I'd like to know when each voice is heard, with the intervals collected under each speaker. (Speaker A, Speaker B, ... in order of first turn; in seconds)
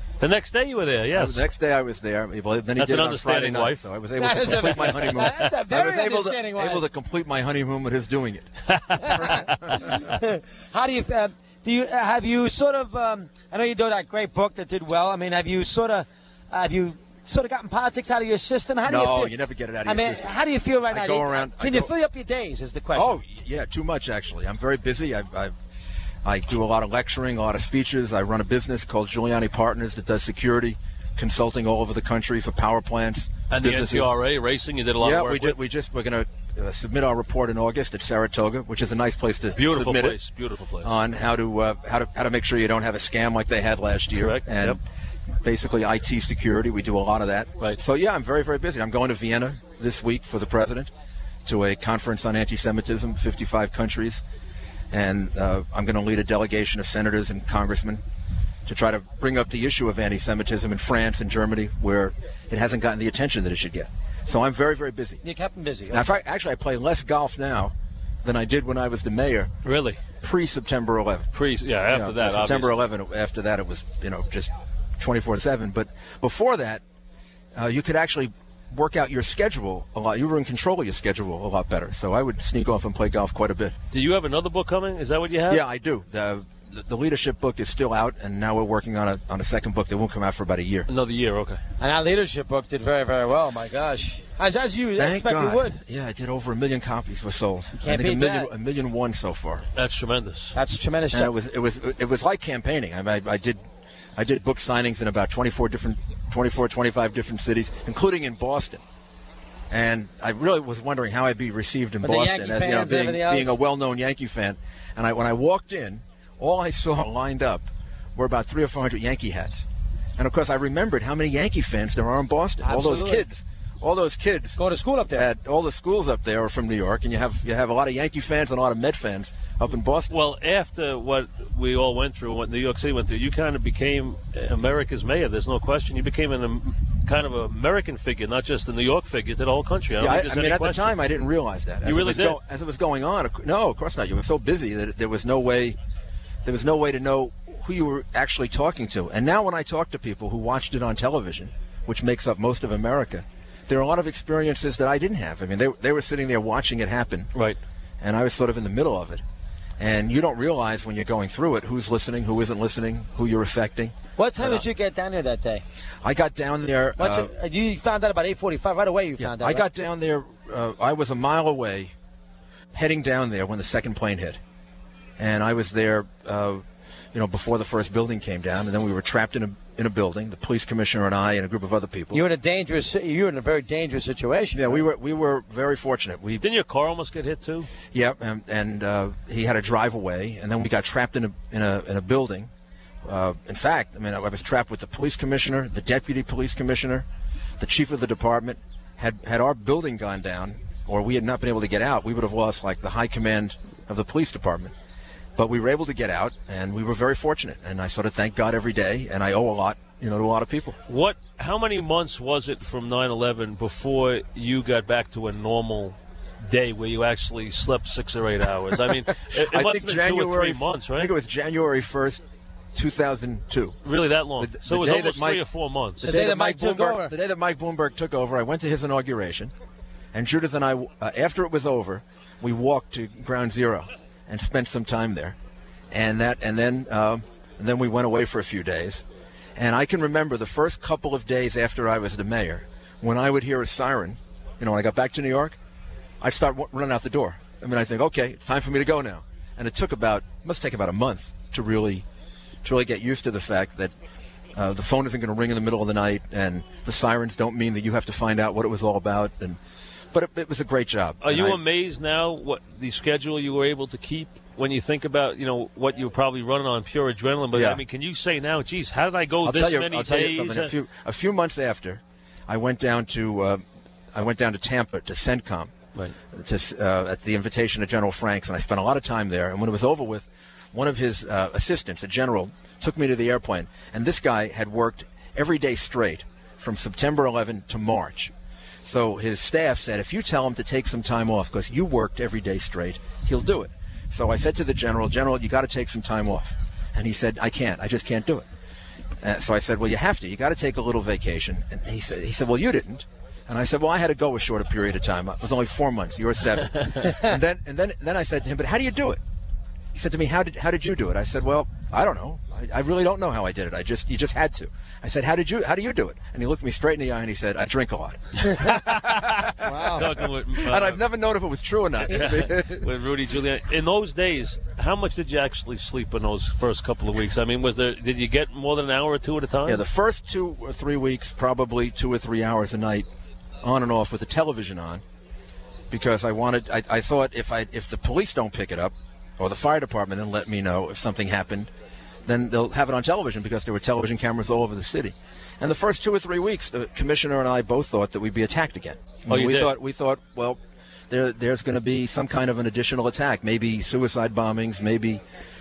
Speaker A: 0.2-1.4, 2.8-3.8, 8.7-9.2, 33.5-35.6, 39.6-40.9, 44.1-44.8, 69.6-70.0, 71.3-72.8, 83.9-85.6, 90.9-91.6, 99.8-100.5, 130.1-141.0, 141.8-142.4, 186.4-187.7, 210.9-221.1, 223.8-226.1, 261.2-270.7, 318.5-321.0, 322.1-329.8, 349.3-349.8
Speaker B: 1.1-9.5, 18.9-20.3, 20.9-21.9, 22.9-25.5, 26.2-34.1, 35.0-40.2, 40.8-44.8, 45.4-50.9, 51.5-54.2, 54.9-58.0, 58.7-65.2, 65.9-69.5, 70.2-71.3, 71.9-76.8, 77.5-83.8, 85.5-90.9, 95.0-99.7, 101.1-103.6, 104.2-108.8, 109.7-124.6, 125.2-130.1, 140.0-145.8, 146.4-157.3, 158.0-159.2, 159.8-164.6, 166.0-167.3, 169.2-171.9, 172.7-174.4, 175.2-176.6, 177.1-182.2, 184.6-186.4, 187.9-192.5, 193.0-197.1, 197.6-204.7, 205.4-210.8, 219.3-222.2, 222.8-223.8, 224.4-225.4, 226.0-229.5, 230.1-235.4, 235.9-239.0, 239.6-245.6, 246.2-252.1, 252.6-253.9, 254.6-259.6, 260.1-261.6, 267.5-267.8, 269.4-273.6, 274.1-275.7, 276.3-288.3, 288.8-298.5, 299.2-309.2, 309.9-322.9, 329.6-333.1, 333.6-335.0, 335.9-341.7, 342.3-350.6, 351.1-355.2
Speaker C: 4.2-6.8, 9.0-23.2, 65.2-66.1, 91.8-95.8, 97.8-98.5, 100.5-101.3, 112.0-113.6, 122.6-123.3, 124.6-125.3, 164.2-165.6, 167.0-169.7, 182.1-184.8, 226.0-227.1, 319.6-320.1